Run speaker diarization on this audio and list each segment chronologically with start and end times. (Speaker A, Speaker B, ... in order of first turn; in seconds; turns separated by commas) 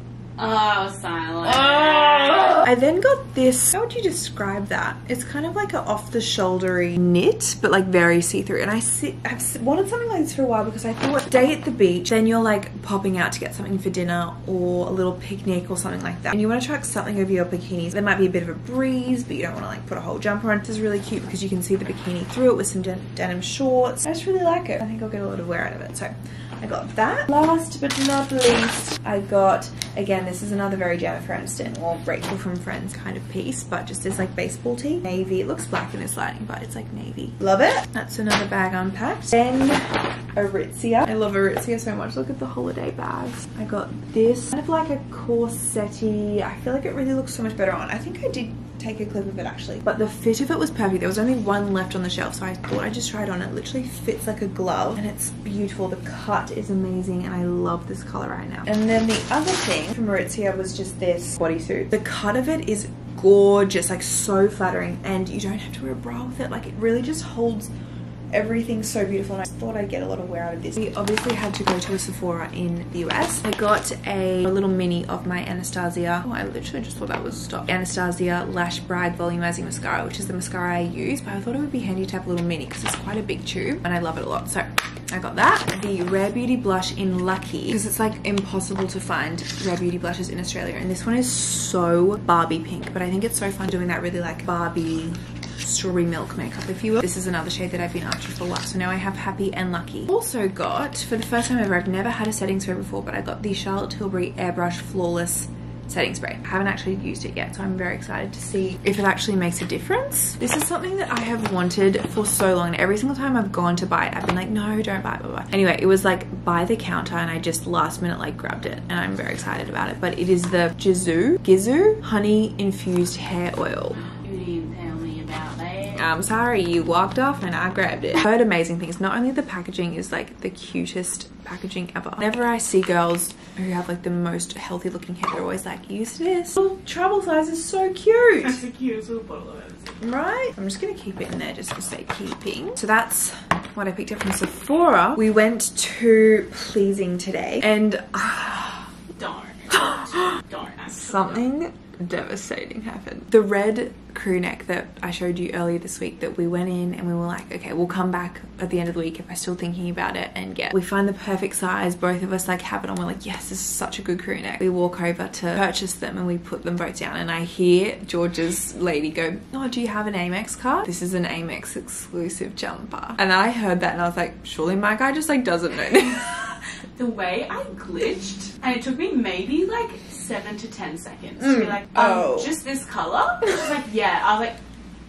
Speaker A: 0.4-2.6, Speaker B: 1.4-67.7, Speaker B: 68.3-124.0, Speaker A: 124.0-126.0, Speaker B: 125.9-138.6, Speaker A: 138.4-140.0, Speaker B: 140.0-148.9, Speaker A: 149.2-151.4, Speaker B: 149.7-150.4, Speaker B: 150.9-176.5, Speaker A: 176.9-184.6, Speaker B: 181.4-182.5